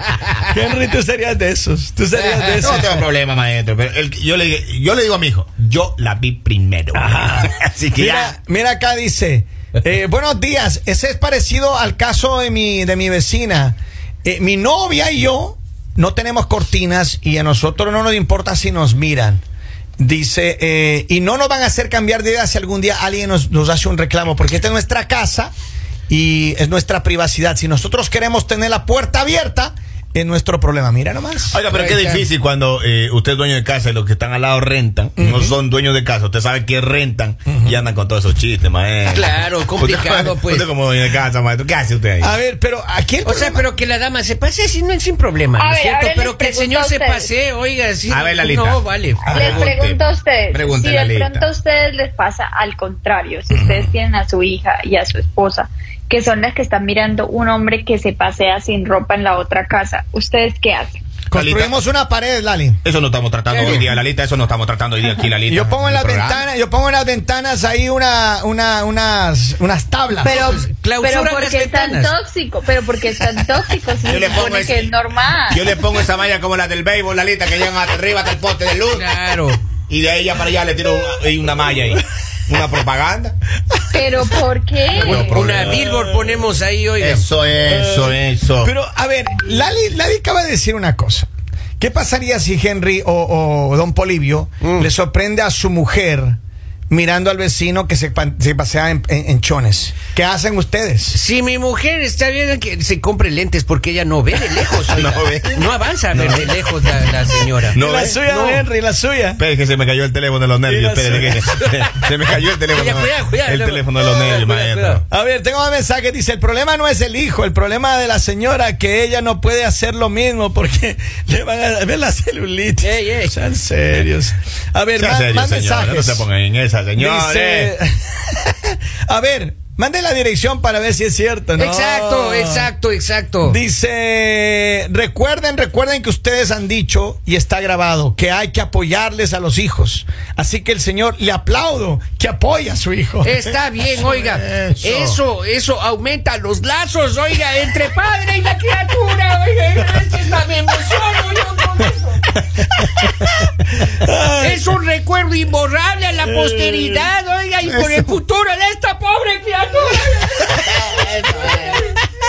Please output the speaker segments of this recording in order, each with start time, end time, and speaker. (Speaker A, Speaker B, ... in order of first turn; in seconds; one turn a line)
Speaker A: 0.5-2.9
Speaker B: 2.1-2.8
Speaker C: 2.6-8.3
Speaker A: 6.9-19.4
Speaker A: 20.0-25.5
Speaker A: 26.1-31.6
Speaker C: 31.5-42.3
Speaker B: 31.7-32.3
Speaker A: 35.2-35.5
Speaker A: 37.5-37.8
Speaker B: 39.1-40.7
Speaker A: 42.2-43.6
Speaker B: 43.2-49.5
Speaker D: 45.6-47.3
Speaker C: 48.1-50.0
Speaker D: 49.3-61.0
Speaker C: 50.5-51.5
Speaker A: 53.5-53.8
Speaker A: 61.3-62.8
Speaker C: 61.3-61.8
Speaker C: 62.8-66.4
Speaker B: 63.5-63.9
Speaker A: 63.6-63.9
Speaker A: 65.5-70.6
Speaker D: 70.2-75.6
Speaker B: 70.3-72.1
Speaker C: 74.1-74.9
Speaker C: 75.5-79.2
Speaker B: 78.9-79.6
Speaker C: 79.9-83.3
Speaker D: 83.9-85.3
Speaker C: 84.9-85.8
Speaker B: 85.0-87.3
Speaker A: 85.4-86.4
Speaker C: 87.0-88.7
Speaker A: 87.6-96.4
Speaker B: 94.6-94.9
Speaker A: 96.9-101.2
Speaker B: 101.1-108.7
Speaker C: 104.9-106.5
Speaker A: 107.7-109.4
Speaker C: 107.7-108.2
Speaker C: 109.4-115.0
Speaker A: 110.6-111.5
Speaker B: 111.6-112.1
Speaker B: 112.7-115.0
Speaker A: 115.1-126.2
Speaker B: 122.8-123.4
Speaker C: 125.0-127.7
Speaker A: 127.0-132.7
Speaker B: 131.6-133.6
Speaker A: 133.4-143.4
Speaker B: 143.2-152.3
Speaker C: 143.9-145.2
Speaker C: 152.8-153.1
Speaker A: 153.8-154.7
Speaker B: 154.4-162.0
Speaker C: 157.7-158.1
Speaker C: 161.3-161.8